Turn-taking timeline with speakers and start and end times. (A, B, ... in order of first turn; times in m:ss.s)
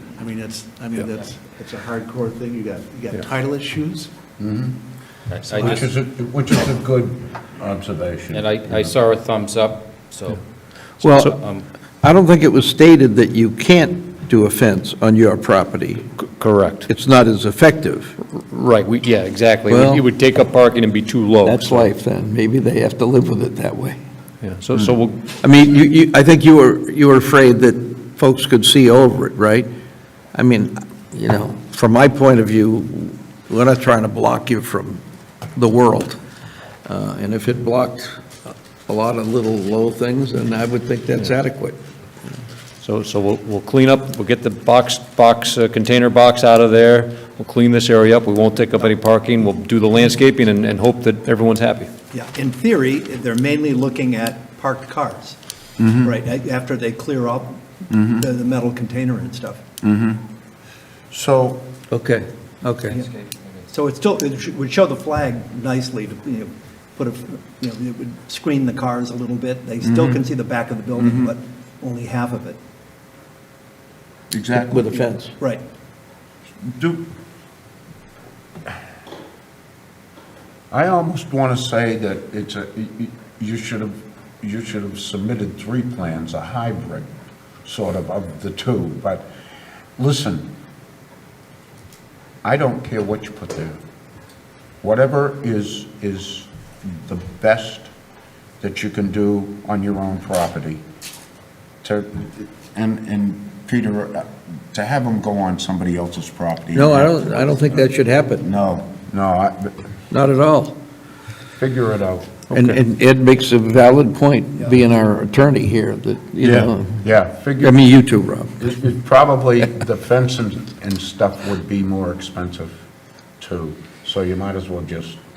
0:00.1-0:04.1 A
0:04.4-0:04.8 B
0:05.3-0:05.8 C
0:05.5-0:05.8 A
0:05.6-0:08.9 B
0:08.3-0:10.4 C
0:11.0-0:11.4 D
0:11.0-0:11.6 C
0:11.0-0:11.3 E
0:12.0-0:16.0 E
0:16.2-0:16.9 D
0:16.9-0:18.1 E
0:18.2-0:21.9 D
0:19.7-0:20.0 E
0:21.4-0:24.0 E
0:24.4-0:25.3 D
0:25.4-0:29.7 E
0:30.3-0:35.0 E
0:35.5-0:36.2 E
0:36.8-0:41.8 E
0:42.8-0:51.9 D
0:52.1-0:55.4 F
0:55.8-0:56.1 B
0:56.0-0:59.6 F
0:57.9-0:58.2 B
0:59.8-1:00.2 B
1:01.1-1:01.7 B
1:01.9-1:03.0 E
1:03.7-1:12.6 F
1:09.8-1:10.2 B
1:11.0-1:11.3 B
1:14.3-1:14.9 B
1:14.6-1:15.3 E
1:16.6-1:17.0 B
1:20.7-1:27.1 B
1:27.6-1:29.2 B
1:30.0-1:30.5 B
1:32.4-1:33.8 B
1:34.8-1:37.9 B
1:38.6-1:40.8 B
1:41.8-1:49.8 B
1:46.8-1:48.4 E
1:50.1-1:50.8 E
1:51.6-1:52.4 B
1:52.5-1:52.8 D
1:52.5-1:57.0 E
1:56.4-1:57.9 B
1:57.9-1:58.6 E
1:58.6-2:02.7 B
2:03.4-2:05.2 B